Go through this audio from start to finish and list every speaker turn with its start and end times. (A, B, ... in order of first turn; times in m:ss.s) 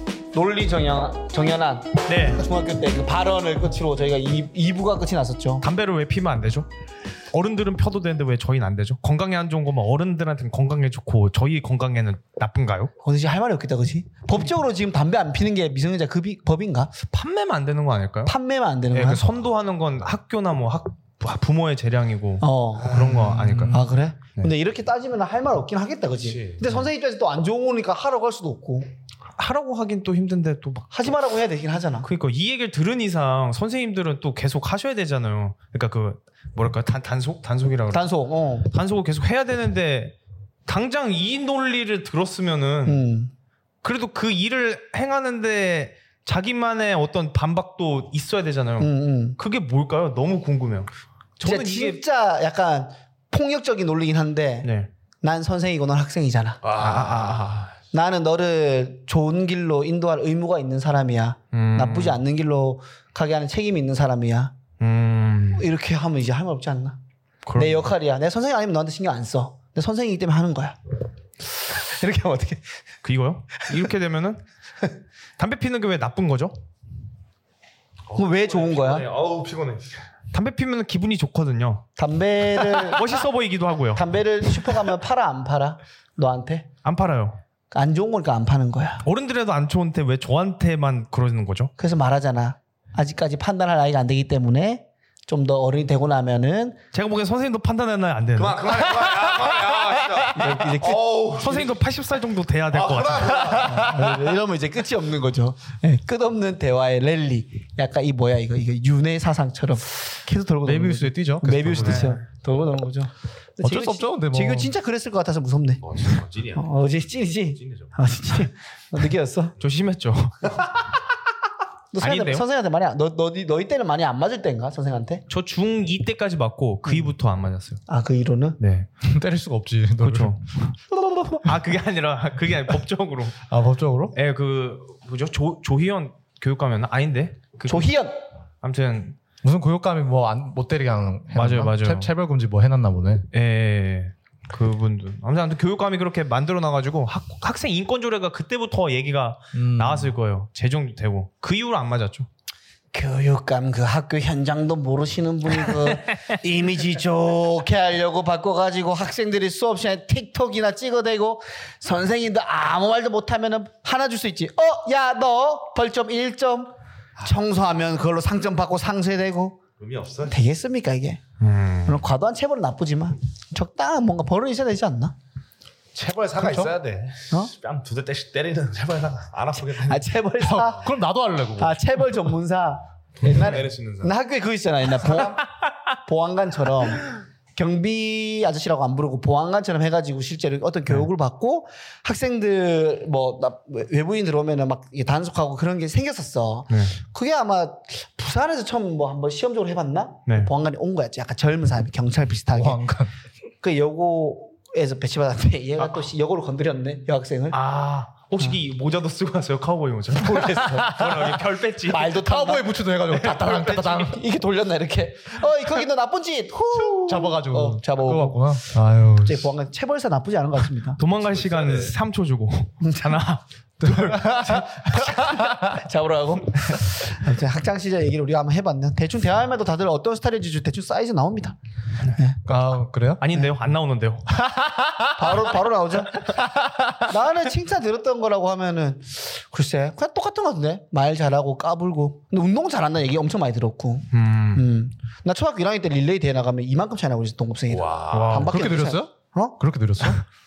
0:00.3-0:05.6 A
0:02.0-0:02.4 B
0:05.6-0:06.7 B
0:07.3-0:12.9 B
0:13.0-0:17.0 A
0:17.1-0:18.3 B
0:18.2-0:19.4 A
0:18.9-0:24.5 B
0:22.4-0:23.1 A
0:22.8-0:23.4 C
0:23.1-0:23.8 D
0:23.7-0:28.9 A
0:26.2-0:26.7 C
0:29.4-0:30.9 B
0:30.9-0:32.1 A
0:32.0-0:38.1 B
0:37.9-0:38.7 A
0:38.6-0:43.0 B
0:42.8-0:43.3 A
0:43.8-0:52.0 B
0:48.8-0:49.4 A
0:51.4-0:54.7 A
0:54.6-0:54.9 B
0:55.2-0:56.6 A
0:56.6-0:57.7 C
0:56.8-0:57.7 B
0:57.9-1:04.5 A
1:01.5-1:02.2 B
1:04.8-1:05.6 B
1:05.5-1:07.0 A
1:07.4-1:07.9 B
1:07.5-1:10.8 A
1:11.6-1:12.8 A
1:13.0-1:14.4 B
1:15.4-1:16.5 B
1:18.1-1:20.0 C
1:18.1-1:19.1 A
1:20.3-1:21.8 B
1:22.0-1:23.2 A
1:22.6-1:24.0 B
1:24.0-1:26.7 A
1:26.8-1:27.4 B
1:27.7-1:29.0 A
1:29.0-1:31.7 B
1:31.8-1:36.8 A
1:36.9-1:38.8 B
1:38.4-1:41.8 C
1:40.3-1:41.0 A
1:41.4-1:43.6 B
1:42.7-1:43.9 C
1:43.6-1:59.5 A
1:50.6-1:52.2 D
1:51.8-1:52.2 B
1:53.6-1:54.7 D
1:55.8-1:56.7 C
1:57.6-1:57.9 C
1:59.6-2:00.7 B
2:01.9-2:05.2 A
2:02.0-2:02.4 B
2:05.3-2:07.8 B
2:06.8-2:07.1 A
2:07.9-2:08.6 A
2:08.6-2:08.9 B
2:09.0-2:10.4 D
2:10.0-2:10.6 B
2:11.1-2:11.4 A
2:11.4-2:13.4 B
2:13.5-2:14.1 D
2:14.1-2:17.9 B
2:17.7-2:18.2 A
2:18.6-2:19.2 B
2:19.4-2:23.3 D
2:21.3-2:22.1 B
2:23.3-2:32.3 B
2:29.5-2:30.1 D
2:32.9-2:49.6 A
2:49.8-2:50.4 C
2:50.2-2:51.2 A
2:51.4-2:52.0 B
2:51.8-2:55.1 A
2:55.9-3:00.1 C
2:56.4-2:56.7 A
2:59.8-3:00.9 A
3:00.4-3:02.3 D
3:01.6-3:05.5 A
3:03.2-3:04.1 C
3:05.0-3:05.3 C
3:06.0-3:22.8 A
3:22.5-3:23.1 D
3:23.6-3:27.6 A
3:27.5-3:32.2 B
3:30.4-3:30.7 A
3:30.6-3:31.3 D
3:31.9-3:41.0 A
3:32.1-3:34.2 D
3:33.1-3:33.9 B
3:36.7-3:39.5 D
3:41.0-3:43.4 B
3:41.1-3:41.9 C
3:42.8-3:43.2 A
3:43.8-3:45.8 D
3:43.9-3:52.4 A
3:52.4-3:53.2 D
3:53.2-3:54.2 B
3:54.4-3:55.3 D
3:55.1-3:56.4 A
3:56.3-3:57.0 D
3:57.0-4:10.1 A
4:04.1-4:04.6 B
4:07.7-4:08.4 C
4:08.1-4:08.6 B
4:08.3-4:10.2 D